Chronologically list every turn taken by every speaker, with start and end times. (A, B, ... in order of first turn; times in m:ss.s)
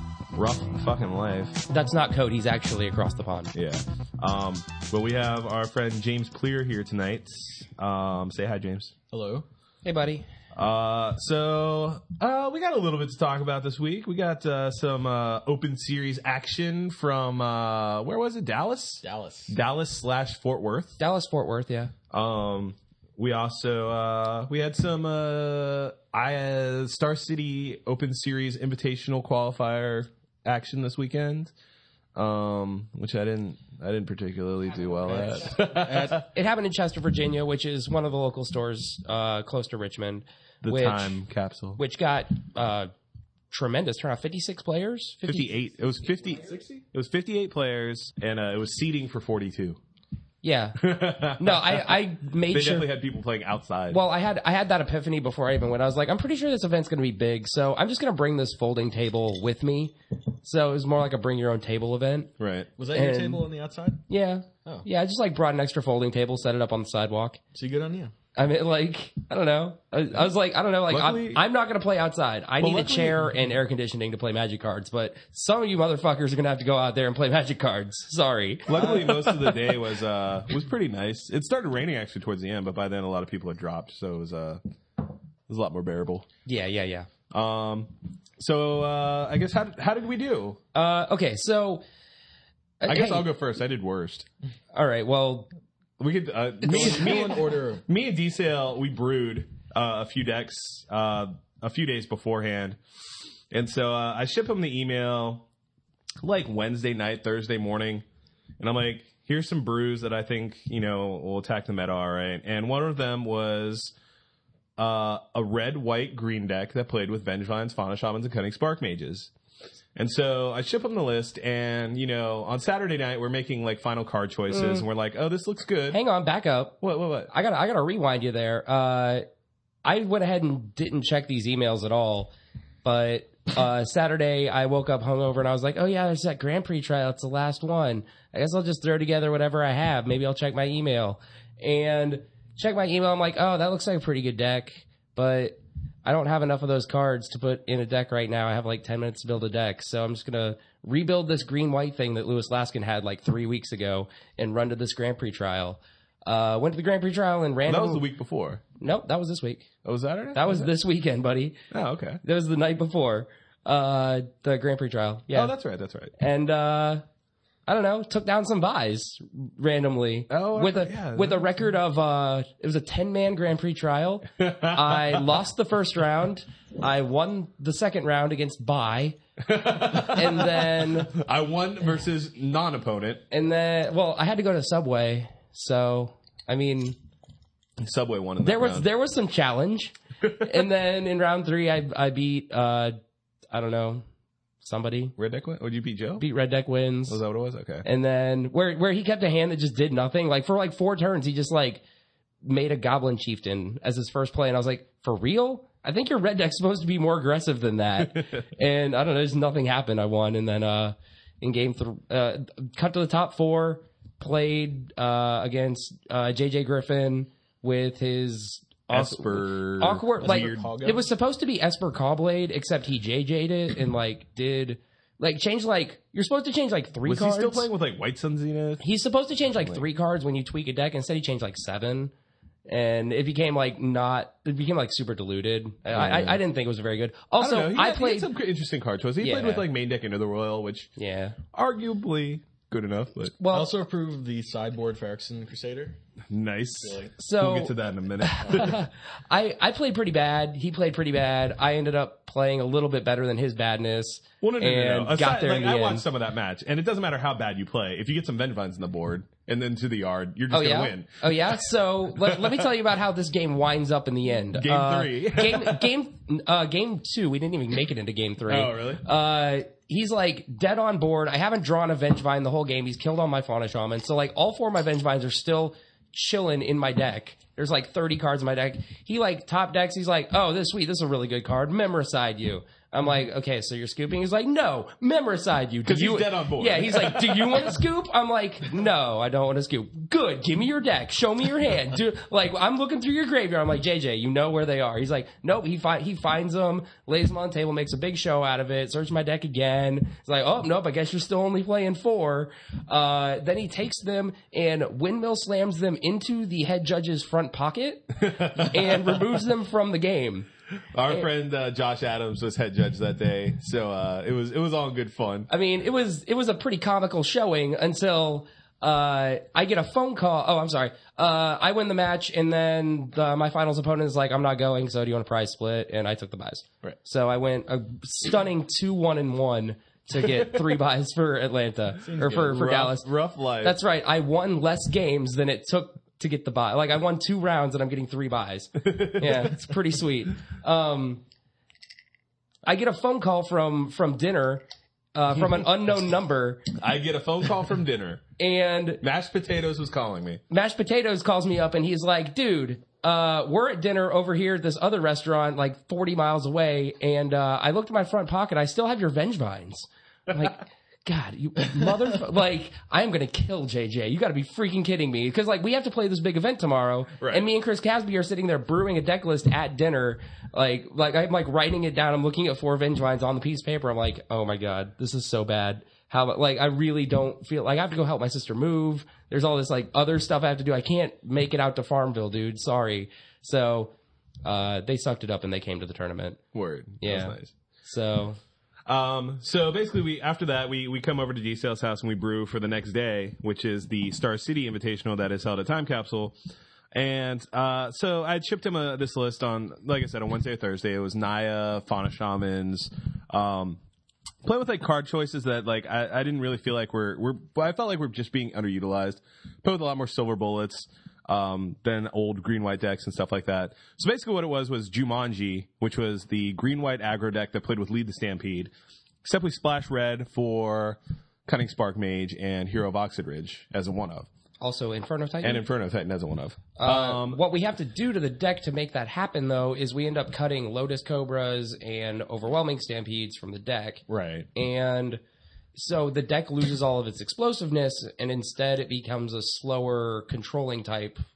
0:00.3-0:01.6 A
0:01.7-0:03.5 B
0:03.5-0:08.9 A
0:09.1-0:09.4 C
0:09.8-0:10.2 B
0:10.5-0:21.0 A
0:19.0-0:19.5 C
0:21.0-0:21.9 B
0:22.1-0:31.5 A
0:32.1-0:36.2 A
0:35.1-0:36.2 C
0:36.3-0:41.2 B
0:40.6-0:41.8 A
0:41.8-0:42.9 B
0:43.5-0:45.5 B
0:45.2-0:49.8 A
0:50.4-0:50.8 B
0:50.8-0:54.0 A
0:51.4-0:52.9 B
0:53.9-1:02.3 B
1:02.4-1:02.7 A
1:02.8-1:04.0 C
1:02.9-1:03.4 B
1:04.1-1:07.4 B
1:07.5-1:08.1 C
1:08.4-1:19.7 B
1:10.9-1:11.4 A
1:12.6-1:13.4 A
1:18.7-1:26.2 A
1:26.4-1:27.1 B
1:27.3-1:30.6 A
1:30.7-1:31.8 B
1:32.8-1:33.3 B
1:32.9-1:34.2 A
1:34.7-1:35.5 B
1:36.0-1:42.8 A
1:36.6-1:37.8 C
1:36.7-1:37.1 B
1:43.5-1:45.4 A
1:46.2-1:48.0 A
1:48.6-1:53.9 A
1:54.8-1:59.3 A
2:00.0-2:06.0 A
2:04.5-2:04.8 B
2:05.9-2:06.8 B
2:06.8-2:07.3 A
2:07.3-2:09.2 B
2:09.8-2:12.3 B
2:12.8-2:38.0 B
2:37.7-2:38.6 A
2:38.8-2:39.7 B
2:39.8-2:40.7 A
2:40.3-2:41.6 B
2:41.7-2:42.2 A
2:42.2-2:45.5 B
2:45.3-2:46.1 A
2:46.2-2:47.0 B
2:47.6-2:59.2 B
2:50.3-2:51.4 A
2:54.4-2:55.2 A
2:59.4-3:03.2 A
2:59.8-3:01.1 B
3:03.3-3:07.0 B
3:07.8-3:08.8 A
3:08.4-3:13.0 B
3:13.5-3:14.0 B
3:14.6-3:15.1 B
3:15.2-3:16.2 A
3:16.2-3:17.2 B
3:17.1-3:17.8 A
3:17.8-3:21.8 B
3:22.4-3:47.7 B
3:38.9-3:40.7 A
3:40.2-3:41.0 C
3:47.0-3:48.8 A
3:48.8-3:52.1 B
3:52.7-3:58.3 B
3:55.9-3:56.4 A
3:57.4-4:00.9 A
3:59.2-3:59.6 B
4:01.0-4:01.4 B
4:01.5-4:03.3 A
4:03.4-4:03.7 B
4:03.5-4:06.0 C
4:06.3-4:08.8 A
4:06.8-4:07.1 C
4:07.2-4:16.0 B
4:14.4-4:22.6 A
4:20.5-5:10.5 B
4:24.5-4:25.9 A
4:28.5-4:29.0 A
4:45.9-4:47.7 A
5:08.2-5:09.2 A
5:10.9-5:15.5 A
5:15.5-5:33.1 B
5:32.0-5:32.6 C
5:32.2-5:33.8 A
5:33.6-5:41.2 B
5:38.8-5:39.7 A
5:42.6-5:46.7 B
5:46.7-5:48.2 A
5:48.4-5:49.0 B
5:49.0-5:50.4 A
5:50.5-6:23.9 B
6:07.2-6:07.4 A
6:24.4-6:26.4 B
6:26.5-6:27.5 A
6:27.0-6:28.4 B
6:28.8-6:36.3 A
6:36.9-6:43.8 A
6:44.4-6:58.7 A
6:59.2-7:04.3 A
7:04.6-7:05.6 B
7:05.4-7:07.4 A
7:06.8-7:15.2 B
7:14.1-7:14.5 A
7:15.7-7:21.2 B